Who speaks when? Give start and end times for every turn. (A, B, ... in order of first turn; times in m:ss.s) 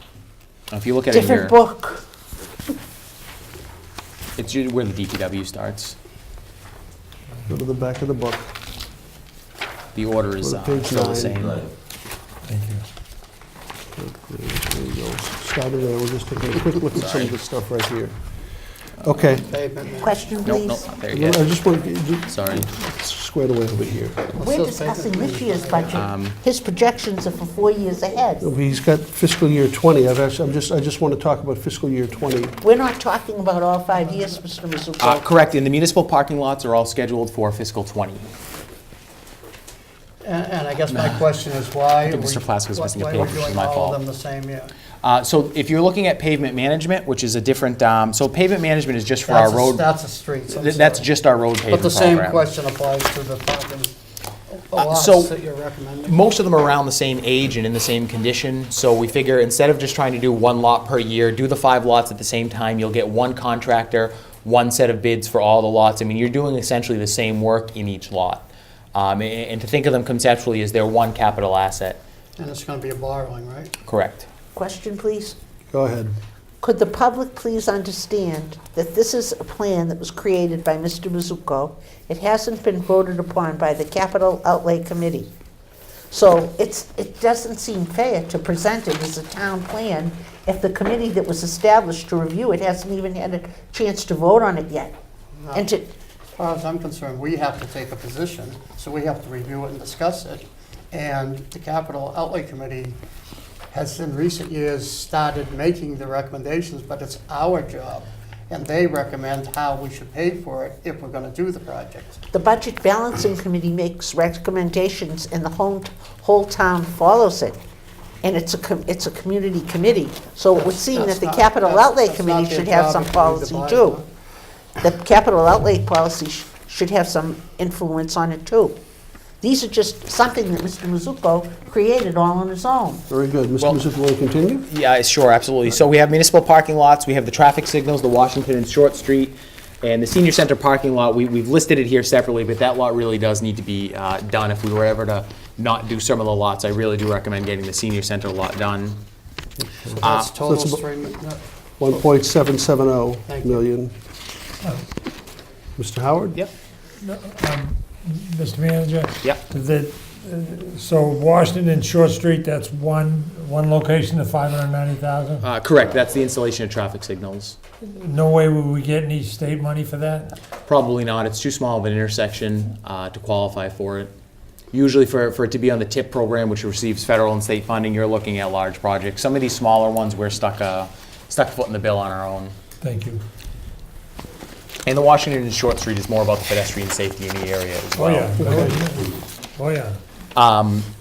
0:00.7-0:01.6 A
0:01.1-0:02.1 B
0:04.4-0:06.0 A
0:07.5-0:08.5 C
0:10.0-0:11.7 A
0:10.4-0:11.5 C
0:12.5-0:12.8 D
0:14.0-0:18.2 C
0:17.0-0:17.3 A
0:19.0-0:19.5 C
0:19.3-0:20.3 E
0:20.0-0:20.9 B
0:20.4-0:21.6 A
0:21.1-0:24.3 C
0:22.3-0:22.7 A
0:24.4-0:26.1 E
0:24.4-0:28.5 B
0:25.9-0:26.4 A
0:28.4-0:32.6 C
0:32.6-0:35.4 B
0:35.0-0:38.3 A
0:40.2-0:44.7 E
0:40.9-0:41.2 A
0:42.0-0:44.0 A
0:45.0-0:49.8 A
0:49.3-0:51.1 E
0:50.5-0:52.5 A
0:51.7-0:53.9 E
0:54.5-0:56.2 E
0:54.8-0:55.3 A
0:56.1-1:12.0 A
1:12.4-1:13.7 E
1:13.9-1:14.3 A
1:14.5-1:15.4 B
1:15.7-1:16.1 C
1:16.6-1:25.3 B
1:26.1-1:35.0 B
1:35.4-1:35.6 E
1:35.5-1:35.9 B
1:36.4-1:43.0 E
1:43.7-1:52.2 E
1:52.3-1:57.6 B
1:58.2-2:04.0 B
2:00.5-2:04.1 E
2:04.8-2:08.8 B
2:09.4-2:13.0 B
2:13.1-2:14.7 C
2:14.7-2:29.0 A
2:29.7-2:30.8 C
2:29.9-2:31.4 E
2:30.0-2:30.3 A
2:31.8-2:33.9 C
2:33.3-2:33.6 E
2:35.8-2:36.4 C
2:37.0-2:45.5 D
2:45.4-2:47.6 A
2:47.8-2:50.4 D
2:50.7-2:54.1 A
2:54.7-3:02.5 A
3:02.8-3:03.2 D
3:04.9-3:08.4 A
3:07.9-3:10.0 D
3:08.4-3:08.7 C
3:10.4-3:10.9 A